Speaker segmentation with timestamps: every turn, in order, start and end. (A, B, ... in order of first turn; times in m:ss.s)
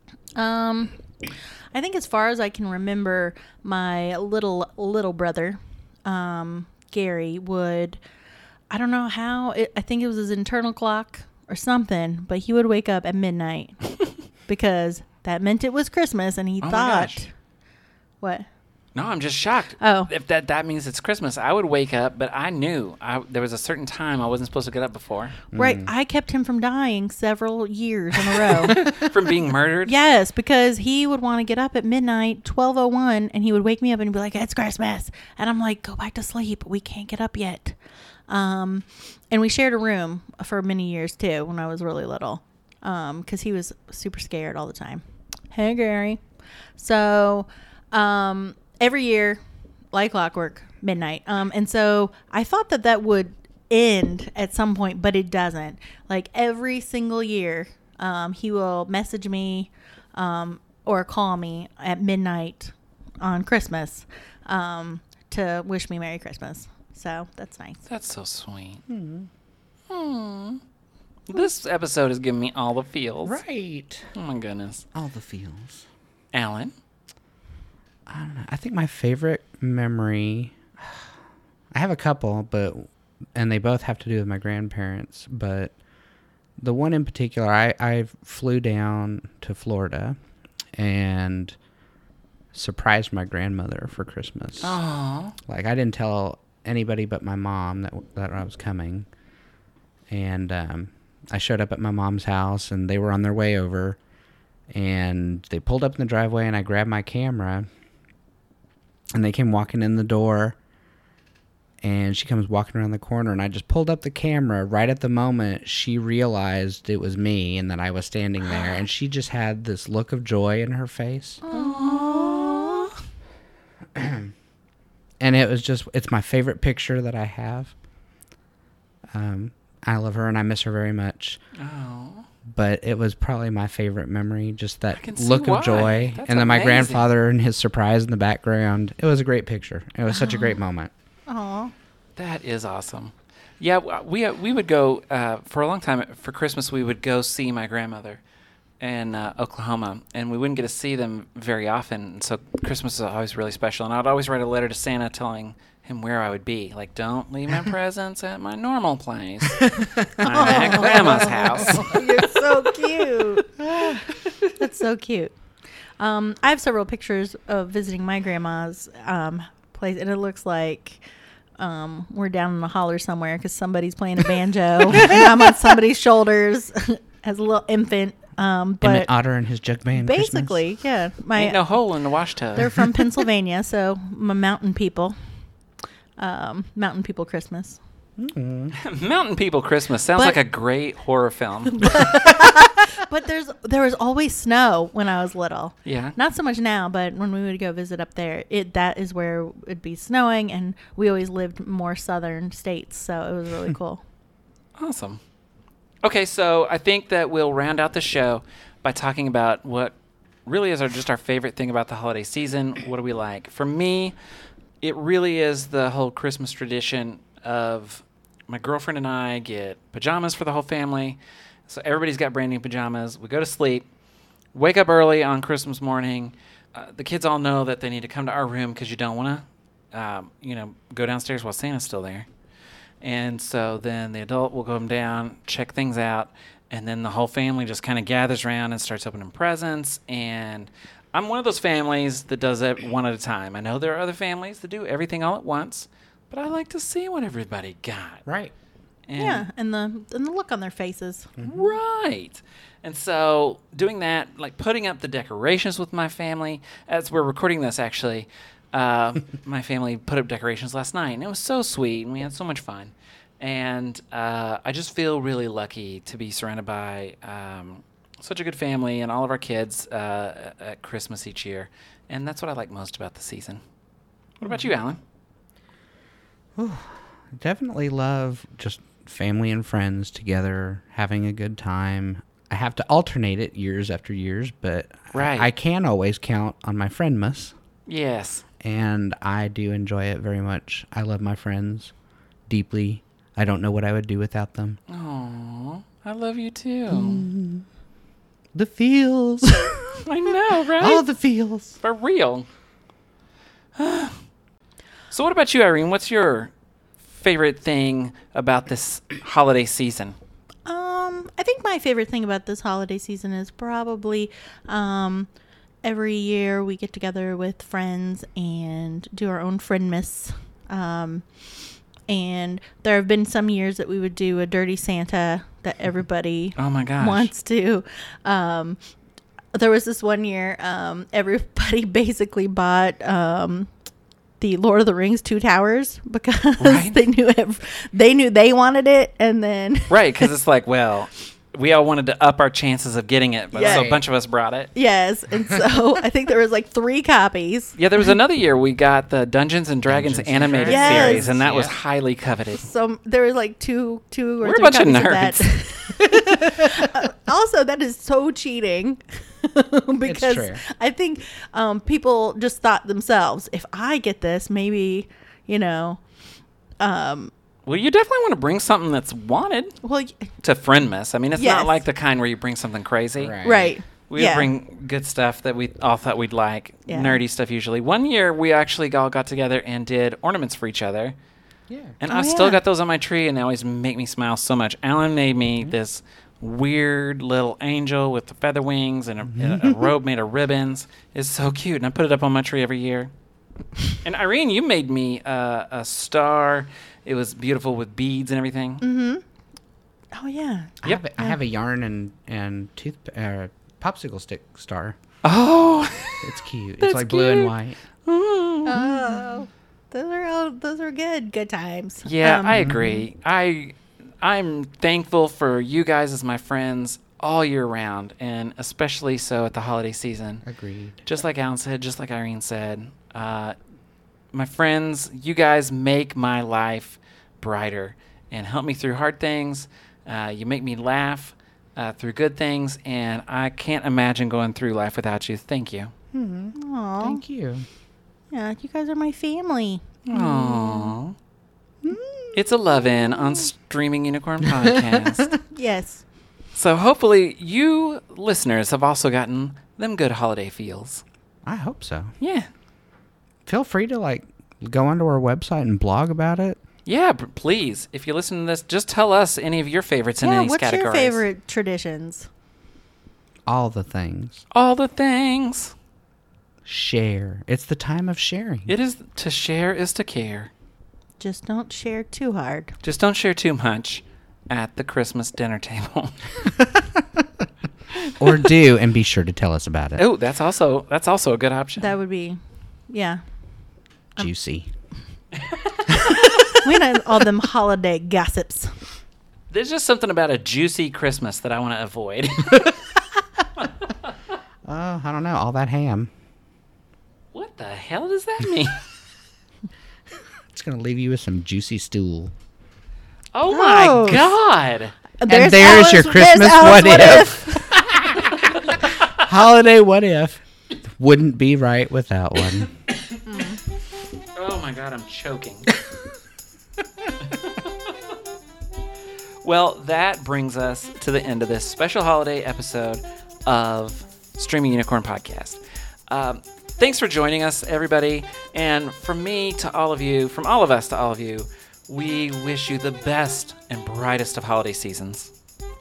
0:00.4-0:01.0 A
0:01.7-0:08.0 A
0:08.7-0:13.8 A
0:14.5-0:17.3 A
0:16.6-0:17.2 B
0:18.2-0:18.5 A
0:19.0-0:25.4 B
0:19.8-0:20.1 A
0:25.5-0:25.9 C
0:25.5-0:28.9 A
0:28.4-0:29.9 B
0:29.9-0:37.8 A
0:38.3-0:46.2 A
0:46.8-0:49.4 A
0:49.9-1:07.8 A
1:07.9-1:08.8 B
1:08.9-1:09.3 C
1:09.9-1:10.6 B
1:11.3-1:13.4 B
1:13.2-1:14.0 C
1:14.2-1:14.8 B
1:14.9-1:15.9 C
1:16.3-1:16.7 B
1:18.1-1:21.1 C
1:21.7-1:25.7 C
1:26.6-1:30.2 C
1:30.8-1:31.6 C
1:32.5-1:34.8 C
1:34.6-1:35.4 B
1:35.5-1:39.1 C
1:40.1-1:44.0 C
1:44.7-1:47.7 C
1:49.1-1:50.6 C
1:51.8-2:01.4 C
2:01.4-2:02.9 A
2:01.5-2:03.0 B
2:04.0-2:04.3 C
2:05.2-2:07.7 C
2:09.1-2:11.4 C
2:11.6-2:12.3 B
2:12.5-2:20.9 C
2:14.9-2:17.1 B
2:20.1-2:20.6 A
2:21.3-2:21.7 A
2:22.2-2:28.2 B
2:28.8-2:42.0 B
2:39.8-2:42.0 C
2:40.2-2:43.9 A
2:43.7-2:44.0 C
2:44.6-2:45.3 A
2:46.0-2:51.0 A
2:51.6-2:59.1 A
2:55.0-2:55.3 C
2:58.8-3:00.6 C
3:00.0-3:01.6 A
3:01.4-3:02.9 B
3:02.6-3:05.2 A
3:06.2-3:07.8 A
3:08.2-3:08.8 C
3:08.8-3:12.1 B
3:11.7-3:24.0 A
3:15.8-3:16.2 B
3:24.8-3:25.2 B
3:26.0-3:29.9 B
3:30.5-3:34.2 B
3:34.8-3:43.8 B
3:44.5-3:52.3 B
3:53.0-4:08.2 B
4:08.3-4:08.5 C
4:09.1-4:09.4 B
4:09.2-4:11.3 A
4:11.4-4:11.8 C
4:11.4-4:33.6 B
4:34.4-4:35.0 B
4:36.6-4:47.6 C
4:45.1-4:45.5 B
4:47.9-4:48.5 B
4:48.6-4:51.9 C
4:52.5-4:54.8 C
4:54.9-4:57.3 B
4:56.9-4:57.7 C
4:58.5-5:00.0 C
5:00.0-5:01.0 B
5:00.8-5:01.8 C
5:01.8-5:02.5 B
5:03.8-5:04.2 B
5:05.1-5:06.5 B
5:07.1-5:10.2 B
5:10.7-5:15.3 A
5:15.8-5:21.3 A
5:22.1-5:28.8 A
5:26.6-5:27.3 B
5:29.5-5:33.7 A
5:34.4-5:40.3 A
5:36.6-5:37.0 B
5:39.9-5:44.7 B
5:43.5-5:43.9 A
5:43.5-5:44.0 C
5:44.8-5:47.8 A
5:47.8-5:52.7 B
5:49.9-5:51.8 C
5:50.7-5:51.3 A
5:52.6-6:06.0 A
5:54.4-5:55.6 B
6:00.0-6:00.6 C
6:06.8-6:07.3 A
6:07.7-6:09.8 B
6:09.8-6:10.3 A
6:10.4-6:21.2 B
6:11.4-6:11.8 A
6:13.2-6:13.7 C
6:13.4-6:14.5 A
6:16.9-6:17.2 A
6:21.7-6:22.0 C
6:22.0-6:33.1 B
6:22.1-6:22.6 A
6:29.3-6:29.9 C
6:34.0-6:38.8 B
6:38.8-6:39.2 A
6:40.1-6:41.4 A
6:40.8-6:45.0 C
6:45.2-6:47.5 B
6:46.2-6:47.8 C
6:48.0-6:48.9 B
6:48.7-6:52.6 A
6:48.9-6:49.3 C
6:52.1-7:00.4 B
6:52.5-6:53.1 C
7:00.4-7:01.0 C
7:01.0-7:03.6 B
7:04.3-7:15.9 B
7:16.1-7:17.7 C
7:16.6-7:17.2 A
7:18.3-7:20.9 A
7:20.1-7:21.2 B
7:20.1-7:20.7 C
7:21.8-7:23.4 C
7:22.3-7:25.4 B
7:24.5-7:25.2 C
7:25.5-7:26.0 A
7:26.6-7:31.0 B
7:31.5-7:32.1 C
7:32.2-7:32.5 B
7:33.5-7:36.6 C
7:36.9-7:41.2 B
7:40.2-7:42.3 A
7:43.5-7:44.4 C
7:44.5-7:45.8 B
7:46.6-7:48.7 C
7:48.7-7:50.5 B
7:51.2-7:52.7 A
7:52.8-7:56.2 B
7:57.0-7:57.2 C
7:58.0-7:58.2 B
7:58.2-8:00.0 C
8:00.0-8:02.0 B
8:01.8-8:03.2 A
8:04.2-8:04.7 C
8:05.4-8:06.0 B
8:06.0-8:08.7 A
8:09.5-8:12.9 B
8:13.6-8:14.1 B
8:14.6-8:16.1 C
8:17.3-8:18.8 B
8:20.5-8:22.3 C
8:23.3-8:25.0 B
8:23.6-8:24.2 C
8:23.7-8:24.1 A
8:25.2-8:27.7 A
8:25.3-8:27.8 C
8:28.1-8:28.8 B
8:29.2-8:32.7 C
8:32.6-8:33.2 B
8:33.3-8:33.6 A
8:34.4-8:35.7 B
8:37.2-8:37.9 B
8:39.4-8:55.3 B